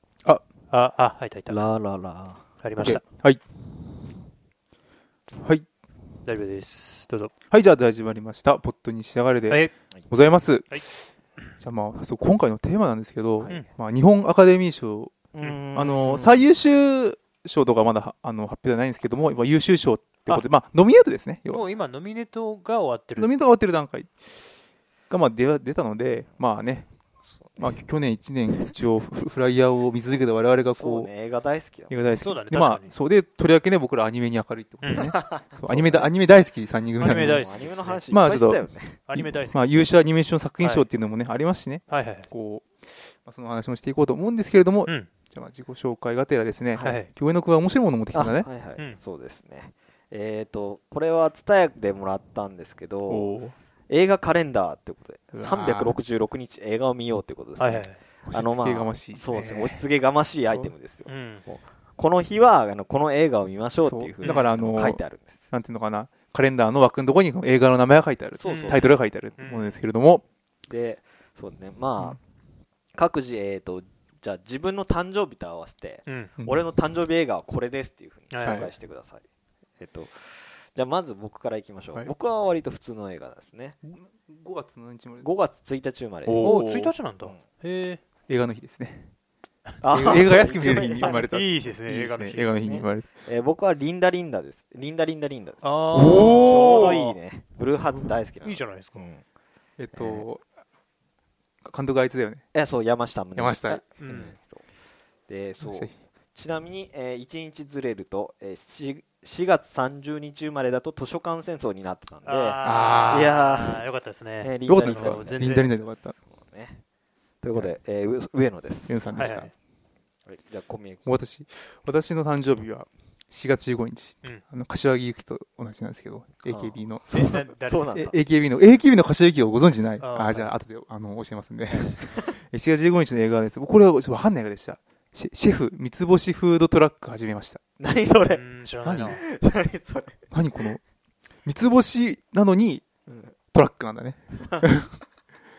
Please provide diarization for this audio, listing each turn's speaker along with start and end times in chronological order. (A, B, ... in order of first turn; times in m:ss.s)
0:00.7-0:01.7 A
0:01.5-0:02.4 B
0:02.6-0:03.0 A
0:02.8-0:03.4 C
0:05.4-0:05.6 C
0:06.2-0:07.3 A
0:07.5-0:11.1 C
0:11.6-0:15.1 C
0:15.3-0:16.5 B
0:15.7-0:21.6 C
0:21.5-0:23.3 A
0:23.2-0:24.1 C
0:25.1-0:26.9 C
0:27.3-0:27.8 B
0:27.6-0:31.1 C
0:30.5-0:32.0 B
0:31.9-0:37.4 C
0:32.1-0:32.9 A
0:34.8-0:35.1 A
0:34.9-0:36.1 B
0:37.0-0:38.1 A
0:37.1-0:39.0 B
0:38.1-0:48.5 C
0:39.1-0:39.7 A
0:40.6-0:40.8 A
0:41.9-0:42.3 A
0:46.7-0:47.0 B
0:46.8-0:47.1 A
0:48.1-0:53.4 B
0:53.1-0:53.5 C
0:53.9-1:05.4 B
0:55.3-0:56.0 C
0:57.6-0:58.0 A
0:58.3-0:59.8 C
1:01.0-1:01.4 A
1:03.8-1:10.2 C
1:04.2-1:04.5 A
1:08.3-1:09.1 B
1:08.4-1:09.8 A
1:10.6-1:12.2 B
1:12.9-1:19.2 B
1:16.0-1:16.3 A
1:18.3-1:18.7 A
1:18.4-1:18.7 C
1:19.8-1:23.8 B
1:23.8-1:25.3 C
1:25.2-1:26.5 B
1:26.2-1:26.9 C
1:26.4-1:28.0 A
1:28.3-1:29.1 C
1:29.8-1:31.3 B
1:29.9-1:33.1 C
1:31.0-1:32.5 A
1:32.5-1:39.2 B
1:35.6-1:37.2 A
1:35.9-1:37.0 C
1:37.7-1:38.1 C
1:38.4-1:39.1 A
1:39.8-1:40.4 C
1:39.9-1:40.3 B
1:41.6-1:42.4 C
1:42.5-1:44.6 B
1:43.4-1:43.8 C
1:43.7-1:44.3 A
1:45.3-1:53.8 B
1:45.6-1:46.0 C
1:52.2-1:55.7 A
1:52.6-1:53.4 C
1:54.4-1:56.8 B
1:54.6-1:56.2 C
1:57.4-1:59.1 B
1:58.9-1:59.5 C
1:59.1-1:59.5 A
2:00.2-2:01.0 B
2:01.0-2:07.3 C
2:06.5-2:08.2 B
2:07.1-2:08.1 A
2:07.9-2:17.6 C
2:10.0-2:10.5 A
2:17.8-2:18.4 B
2:18.3-2:19.2 A
2:18.8-2:19.2 C
2:19.1-2:20.2 B
2:20.3-2:20.8 C
2:21.4-2:22.8 C
2:23.1-2:23.3 B
2:23.5-2:25.0 C